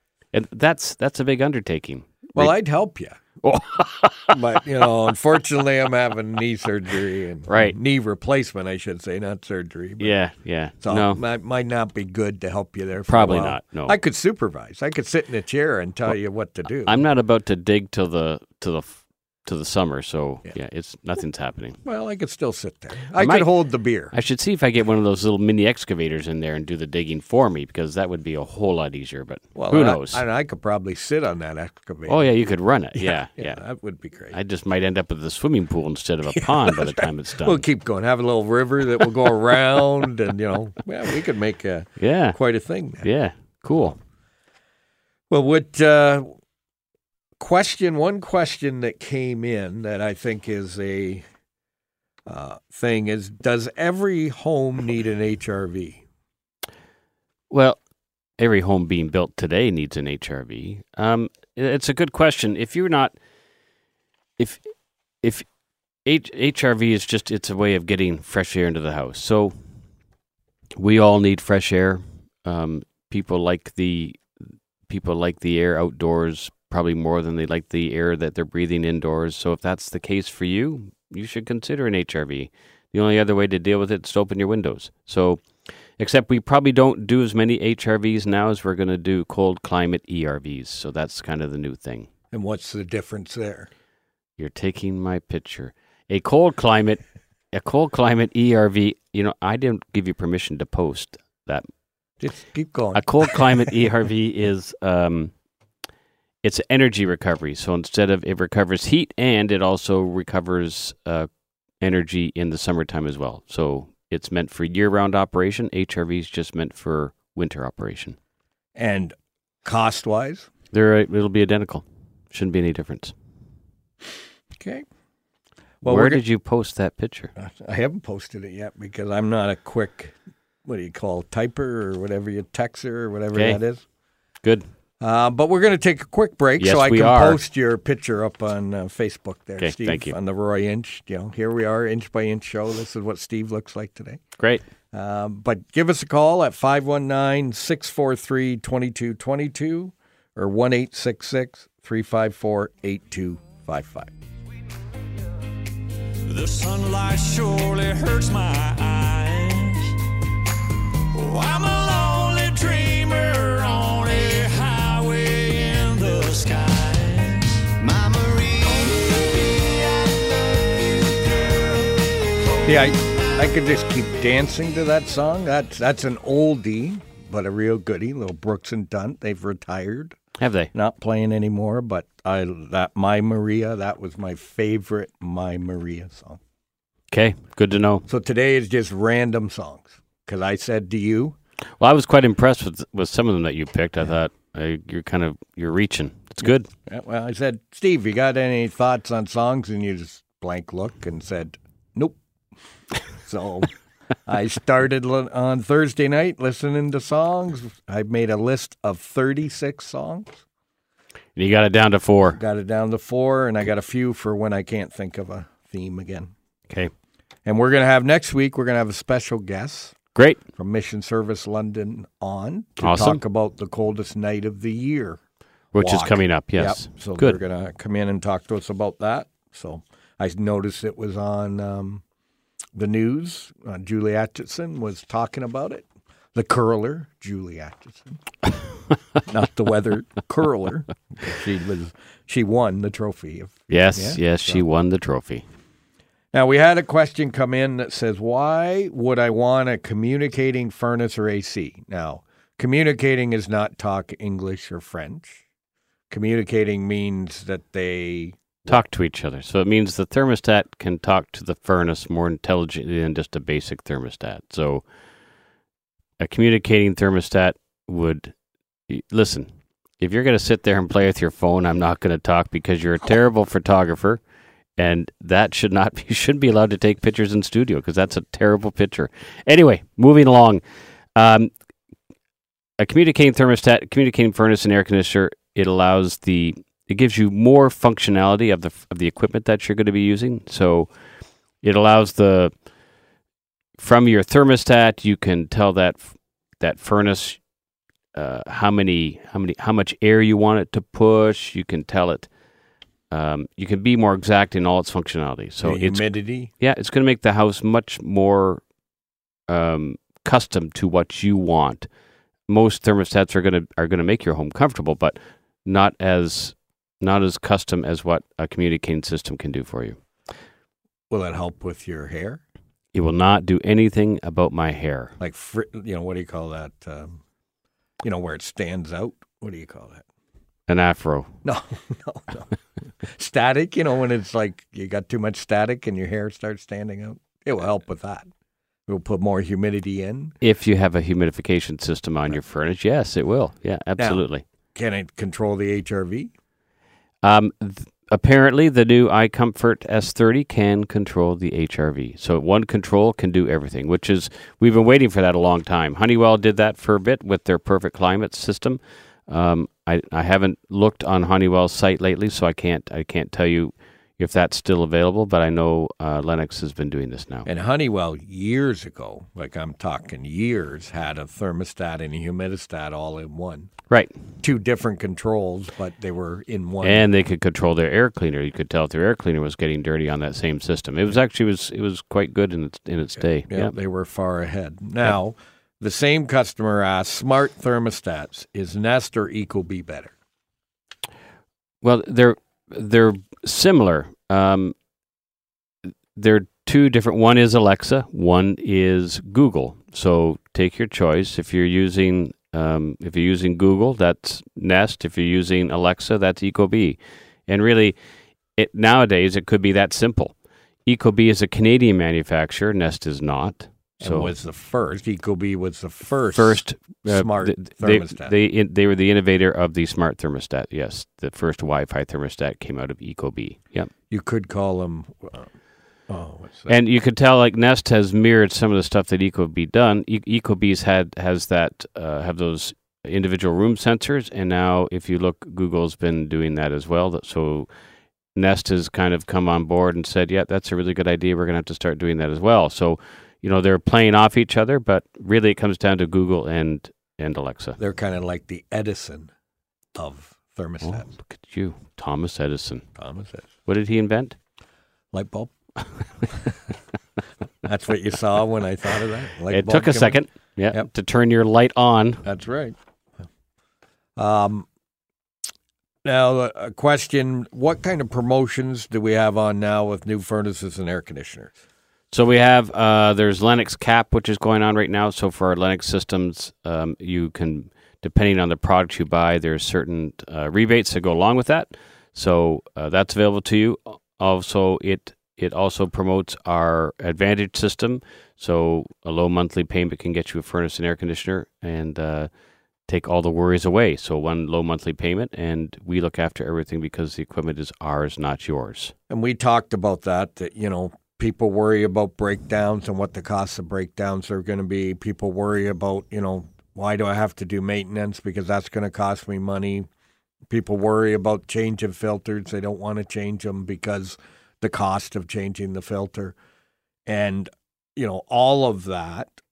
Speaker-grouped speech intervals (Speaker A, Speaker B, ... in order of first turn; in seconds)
Speaker A: 0.3-2.5, 3.4-4.9, 7.5-7.8, 10.0-11.2, 13.1-13.9, 16.7-21.8, 23.2-23.5, 24.1-30.2, 32.1-33.6, 34.3-37.6, 42.0-42.4, 43.0-44.0, 57.5-57.8, 58.4-63.1, 66.0-69.5, 70.8-74.2, 74.9-85.5, 86.0-92.1, 94.4-101.7, 102.9-105.3, 106.4-111.3, 111.8-118.2, 120.7-123.1, 125.8-127.3, 136.6-137.4, 139.6-140.2, 180.4-180.7, 187.1-188.1, 191.8-196.7, 211.3-212.4, 220.2-220.4, 222.8-223.2, 225.7-227.4, 243.7-245.4, 258.7-264.8, 266.2-268.4, 268.9-274.2, 274.8-280.6, 281.1-281.5, 282.8-290.9, 291.6-292.5, 293.8-297.4, 298.1-302.3, 303.1-306.0, 306.6-308.6, 309.5-311.9, 312.5-320.0, 322.9-325.1, 330.7-331.3, 340.4-344.4, 347.2-367.5, 376.8-383.7, 391.8-394.7, 396.1-408.0, 408.6-410.4, 410.9-414.3, 416.4-423.9, 426.7-437.7, 438.4-447.8, 450.8-452.9, 453.7-454.4, 459.5-462.2, 472.1-492.3, 492.9-498.9
Speaker B: 2.4-3.2, 4.3-10.2, 10.8-17.0, 21.8-24.1, 29.6-32.3, 33.0-34.4, 36.3-43.1, 45.3-46.3, 47.4-51.2, 52.3-56.0, 92.3-93.7, 102.2-103.8, 118.8-120.5, 124.6-124.8, 125.8-126.2, 127.4-133.8, 135.0-144.2, 144.9-154.1, 172.6-180.2, 180.7-186.4, 188.1-191.4, 196.9-202.2, 203.2-203.7, 204.3-210.4, 212.3-216.3, 217.4-220.0, 220.6-225.2, 225.8-232.0, 232.8-238.2, 239.2-244.6, 246.3-255.4, 256.1-258.8, 305.6-306.5, 321.1-322.4, 325.2-327.2, 328.0-330.1, 331.4-332.5, 333.0-338.3, 338.9-340.4, 344.7-346.3, 367.5-373.7, 374.4-377.1, 383.5-390.1, 414.0-418.3, 424.1-425.5, 426.1-426.7, 447.8-449.3, 450.0-451.1, 453.0-453.5, 455.1-455.5, 457.6-460.2, 462.2-462.8, 464.2-464.7, 466.1-471.5, 499.1-509.9, 510.5-516.4, 517.1-519.3
Speaker C: 156.3-160.1, 161.1-172.2